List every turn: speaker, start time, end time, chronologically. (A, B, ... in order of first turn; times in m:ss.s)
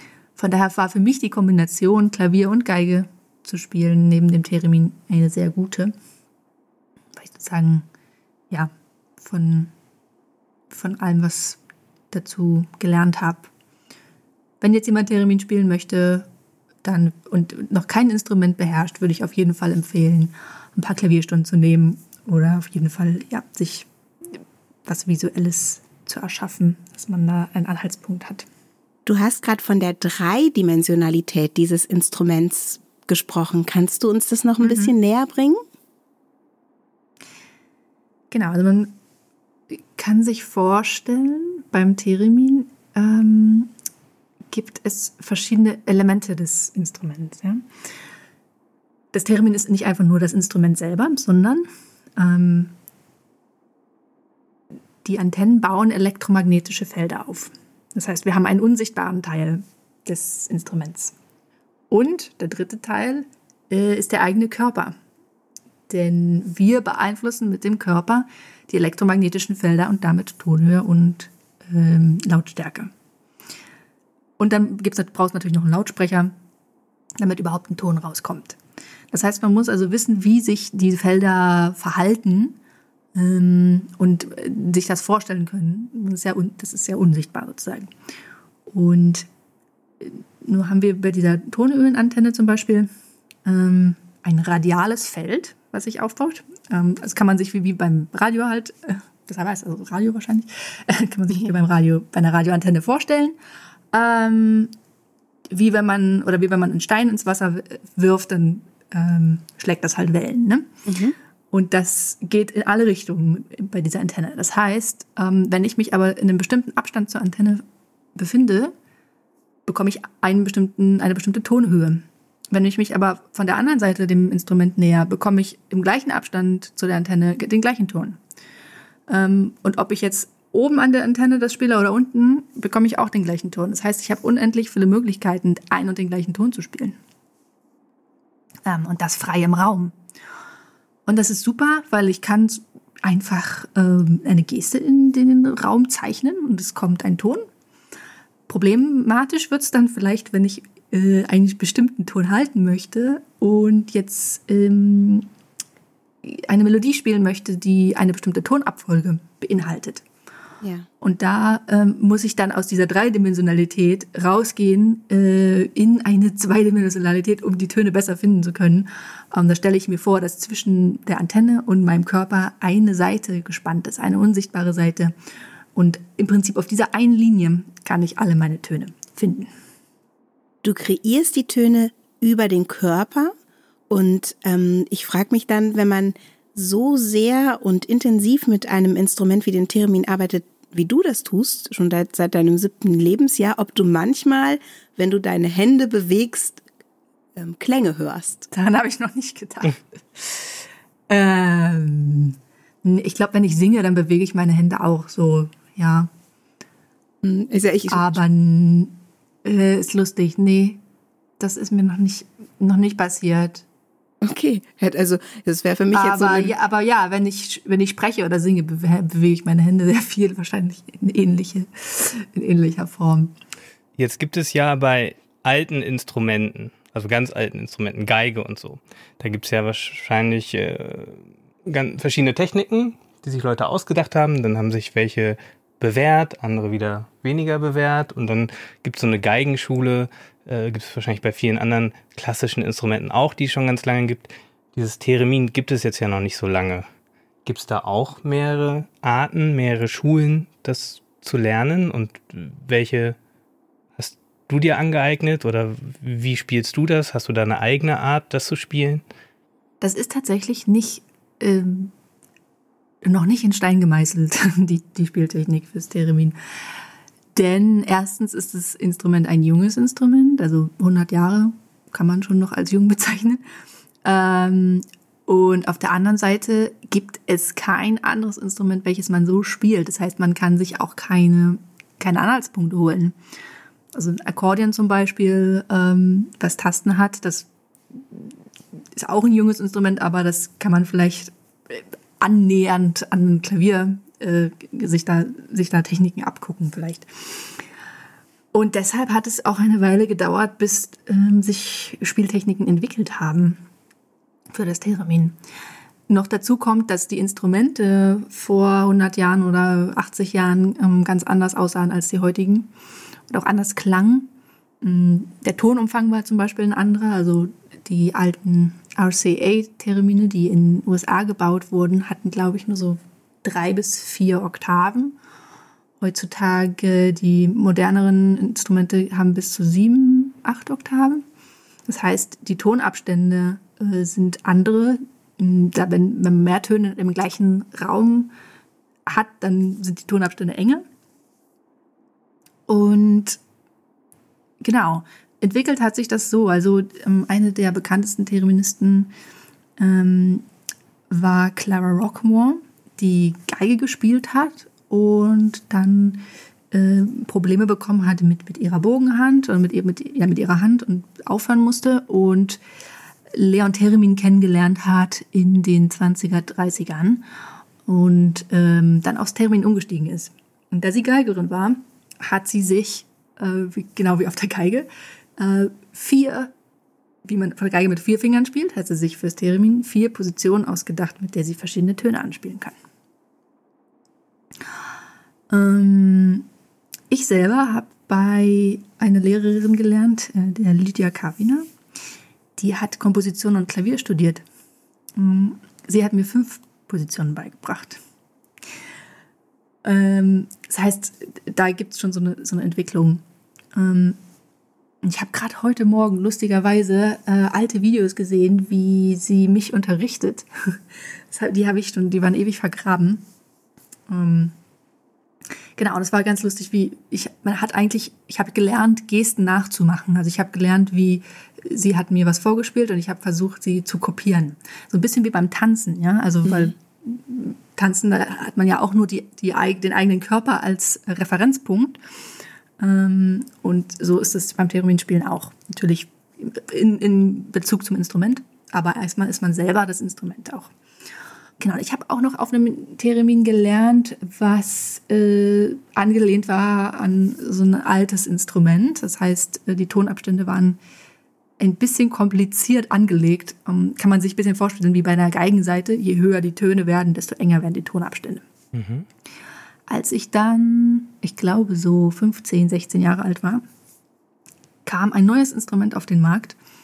0:00.4-0:05.9 A
0:07.2-0:07.8 A
0:08.5-0:09.7 A
0:10.7-0:11.6 A
0:12.1-0:13.5 A
0:14.6-0:16.3 A
0:16.8-0:28.4 A
0:29.0-0:35.6 B
0:34.6-0:34.9 A
0:38.3-0:38.9 A
0:39.7-0:43.7 A
0:44.5-0:47.6 A
0:49.1-0:51.6 A
0:52.2-0:52.7 A
0:55.0-1:01.1 A
1:01.9-1:04.9 A
1:05.9-1:12.9 A
1:14.4-1:16.3 A
1:17.2-1:18.6 A
1:19.1-1:22.6 A
1:23.1-1:27.9 A
1:28.7-1:29.3 A
1:30.0-1:32.9 A
1:33.4-1:43.4 A
1:43.9-1:44.7 A
1:45.5-1:50.7 A
1:50.8-1:51.1 B
1:51.5-1:57.6 A
1:58.1-1:58.7 A
1:59.7-2:08.2 A
2:09.1-2:17.0 A
2:18.6-2:19.9 A
2:21.0-2:27.5 A
2:28.5-2:35.2 A
2:36.2-2:40.0 A
2:40.6-2:40.9 B
2:41.0-2:55.1 A
2:55.7-2:59.5 A
3:00.6-3:03.3 B
3:03.9-3:16.6 B
3:17.4-3:18.5 B
3:18.5-3:20.6 A
3:21.1-3:26.1 A
3:27.2-3:28.2 B
3:27.9-3:30.8 A
3:31.4-3:33.6 A
3:34.2-3:36.5 B
3:35.9-3:43.3 A
3:44.0-4:06.8 C
4:07.4-4:13.2 C
4:14.0-4:19.0 C
4:19.8-4:21.9 A
4:23.0-4:26.3 A
4:27.3-4:33.4 A
4:34.0-4:43.2 A
4:43.9-4:48.3 A
4:49.0-4:57.6 A
4:58.5-5:03.6 A
5:04.5-5:05.3 A
5:06.1-5:12.7 A
5:13.3-5:14.3 A
5:14.8-5:25.1 A
5:26.0-5:31.2 A
5:31.9-5:38.3 A
5:39.0-5:40.8 A
5:42.7-5:43.4 A
5:44.6-5:49.1 A
5:49.8-5:50.4 A
5:51.1-6:02.6 A
6:03.3-6:07.2 A
6:07.9-6:16.5 A
6:17.2-6:22.7 A
6:25.5-6:26.5 A
6:27.1-6:31.7 A
6:32.6-6:34.4 A
6:35.2-6:38.0 A
6:39.8-6:43.2 A
6:43.7-6:44.2 A
6:45.0-6:50.8 A
6:51.3-6:53.2 A
6:54.1-6:54.5 A
6:55.8-7:12.0 A
7:12.8-7:20.7 A
7:21.6-7:30.8 A
7:31.6-7:38.4 A
7:38.7-7:39.0 C
7:39.9-7:43.6 A
7:44.8-7:46.6 A